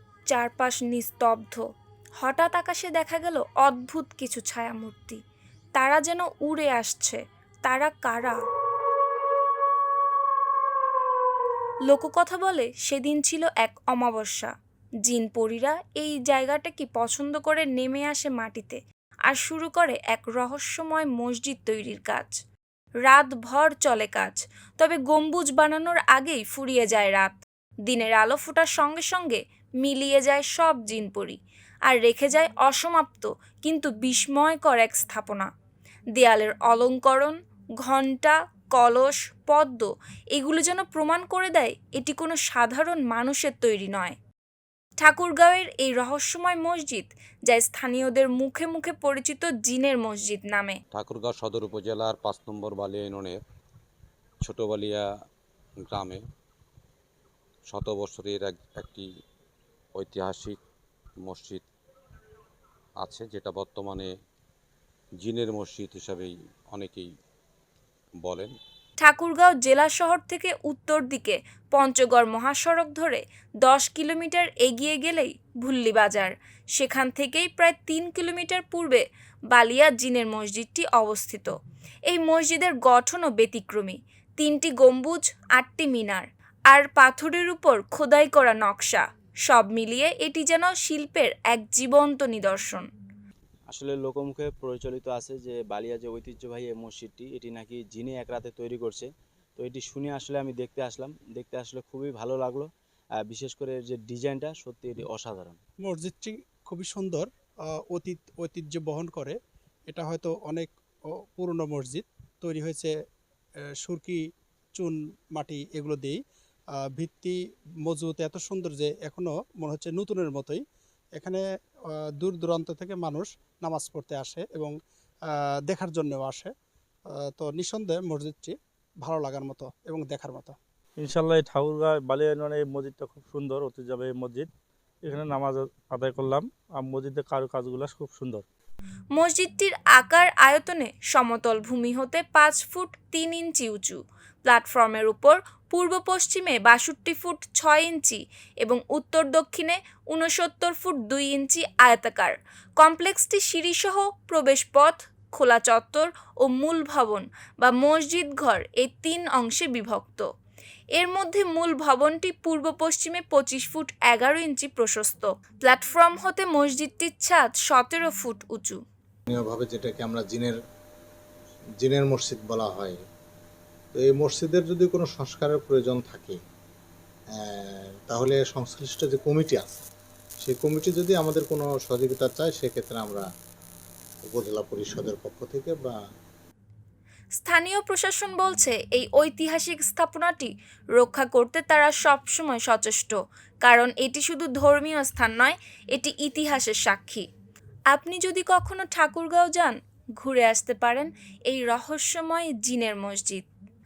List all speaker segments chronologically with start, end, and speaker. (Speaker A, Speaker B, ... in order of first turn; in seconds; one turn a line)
Speaker A: 0.3-1.6
Speaker A: 2.2-5.2
Speaker A: 5.8-8.4
Speaker A: 11.9-14.5
Speaker A: 15.0-22.3
Speaker A: 23.0-35.5
Speaker A: 36.1-44.1
Speaker A: 45.0-50.8
Speaker B: 50.9-53.4
Speaker B: 54.4-55.0
Speaker B: 55.9-56.2
Speaker B: 57.7-59.0
Speaker B: 60.0-60.6
Speaker B: 61.2-61.6
Speaker B: 63.0-64.1
Speaker B: 65.2-67.1
Speaker B: 68.2-68.5
Speaker A: 69.0-81.5
Speaker A: 82.1-92.8
Speaker C: 93.7-105.6
Speaker D: 105.8-107.3
Speaker D: 107.9-109.3
Speaker D: 109.9-110.7
Speaker D: 111.3-112.9
Speaker D: 113.8-114.2
Speaker D: 114.7-116.2
Speaker D: 117.0-120.6
Speaker D: 121.2-121.4
Speaker D: 122.2-124.7
Speaker D: 125.7-126.5
Speaker D: 127.2-130.5
Speaker E: 131.0-134.5
Speaker E: 135.0-138.4
Speaker A: 139.1-160.2
Speaker A: 160.9-168.8
Speaker F: 169.3-170.6
Speaker F: 171.8-173.0
Speaker F: 173.9-176.4
Speaker F: 177.4-179.8
Speaker F: 180.4-183.2
Speaker F: 184.3-186.0
Speaker A: 187.4-197.2
Speaker A: 197.9-203.5